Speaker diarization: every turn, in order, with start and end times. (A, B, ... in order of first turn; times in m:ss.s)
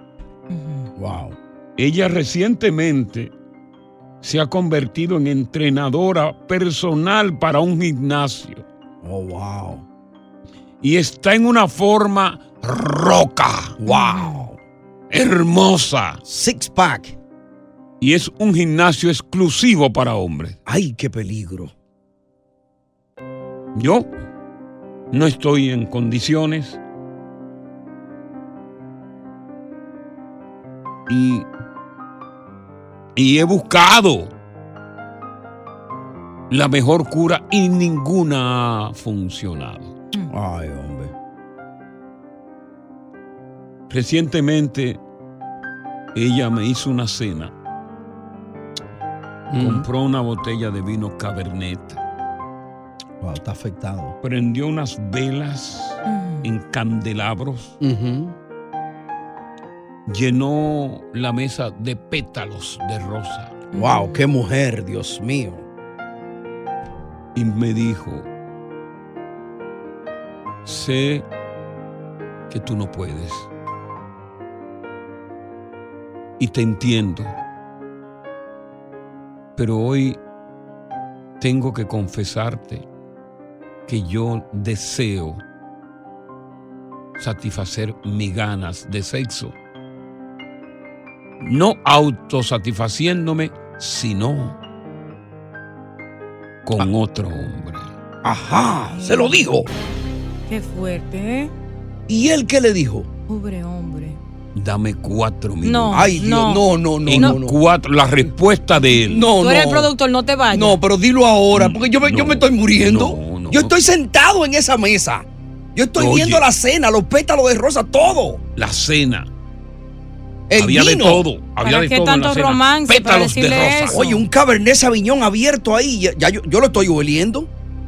0:00.5-0:00.9 A
0:01.0-0:01.4 B
0:01.8-0:03.3 C
0:04.2-0:08.6 C
0:09.0-0:09.8 B
0:10.8-0:13.8 C
0:13.8-0:14.6 B
0:13.8-0:14.4 A
0:15.1-0:16.2 C
0:16.2-0:17.2 B
0:18.0-0:20.6 C
0:20.6-0:21.7 B
0:23.7-0:24.1 C
0:25.1-0:26.8 C
0:31.1-0:31.5 C
0:33.2-0:34.3 C
0:36.5-0:40.0 C
0:40.3-0:41.1 B
0:43.9-0:45.0 C
0:46.1-0:47.5 C
0:49.5-0:49.8 B
0:49.6-0:52.0 C
0:53.2-0:54.1 B
0:54.2-0:57.8 C
0:56.0-0:56.5 A
0:57.8-0:58.3 B
1:00.1-1:03.6 C
1:03.7-1:04.2 A
1:03.8-1:05.6 B
1:07.3-1:08.3 C
1:10.6-1:11.2 C
1:12.5-1:13.5 C
1:16.4-1:17.4 C
1:19.6-1:20.2 C
1:21.4-1:22.9 C
1:23.9-1:25.4 C
1:27.2-1:29.6 C
1:31.4-1:34.6 C
1:36.6-1:37.9 C
1:38.2-1:39.7 B
1:38.9-1:39.7 A
1:40.5-1:41.5 A
1:42.1-1:43.1 B
1:43.3-1:44.2 A
1:44.5-1:46.1 C
1:45.6-1:46.6 A
1:45.9-1:47.5 B
1:47.0-1:49.3 C
1:49.0-1:49.9 B
1:49.3-1:50.8 A
1:50.5-1:58.4 B
1:51.5-1:53.7 C
1:56.0-1:56.4 C
1:58.6-1:59.3 C
2:00.5-2:01.2 B
2:00.5-2:04.1 C
2:01.6-2:04.2 A
2:03.9-2:07.5 B